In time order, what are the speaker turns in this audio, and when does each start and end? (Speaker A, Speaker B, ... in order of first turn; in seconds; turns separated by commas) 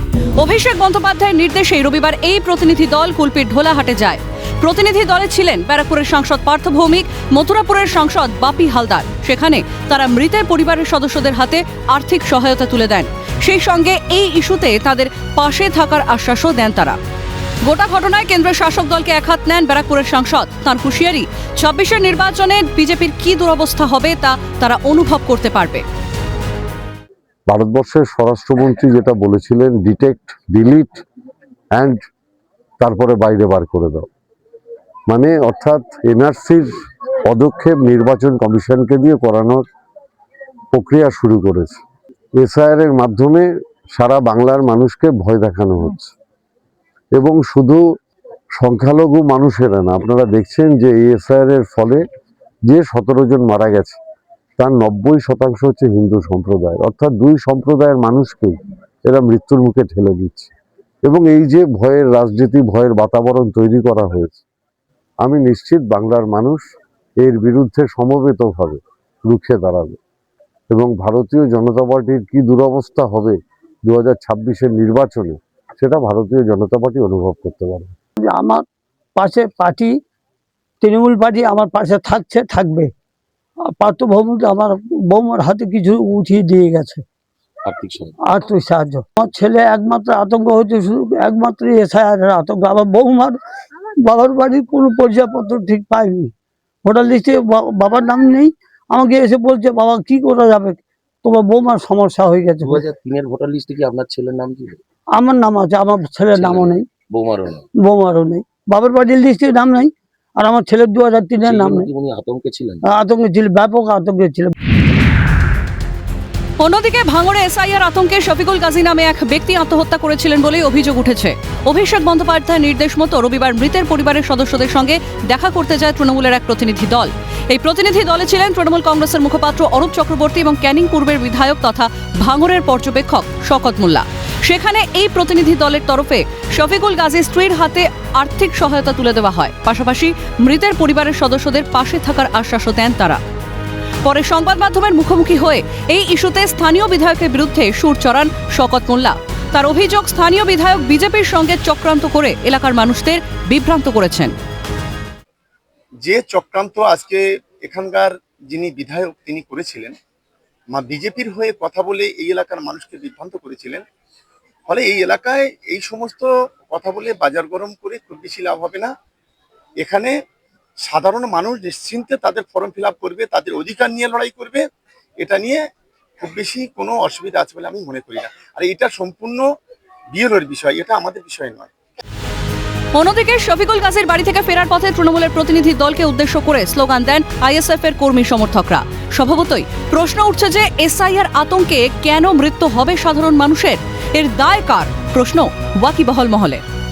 Speaker A: 0.4-17.0, Speaker A: 17.6-25.8, Speaker B: 27.5-31.0, Speaker B: 31.7-32.0, Speaker B: 32.8-34.1, Speaker B: 35.1-36.7, Speaker B: 37.2-39.6, Speaker B: 40.7-41.8, Speaker B: 42.4-46.1, Speaker B: 47.1-47.8, Speaker B: 48.6-52.0, Speaker B: 52.7-54.0, Speaker B: 54.6-60.5, Speaker B: 61.1-64.4, Speaker B: 65.2-66.6, Speaker B: 67.2-70.0, Speaker B: 70.7-77.9, Speaker C: 78.2-78.6, Speaker C: 79.2-79.9, Speaker C: 80.8-82.9, Speaker C: 83.8-87.0, Speaker D: 87.7-88.2, Speaker C: 88.3-93.3, Speaker C: 94.0-96.3, Speaker C: 96.8-102.8, Speaker D: 102.6-104.8, Speaker C: 105.2-106.8, Speaker D: 106.3-107.7, Speaker C: 107.8-111.9, Speaker D: 111.4-112.8, Speaker C: 113.0-114.5, Speaker A: 116.6-143.2, Speaker A: 144.0-154.3, Speaker E: 156.1-160.0, Speaker E: 160.7-163.8, Speaker E: 164.7-168.9, Speaker E: 169.8-170.2, Speaker E: 170.9-174.7, Speaker E: 175.2-175.6, Speaker E: 176.2-179.4, Speaker E: 180.1-181.7, Speaker A: 182.9-196.6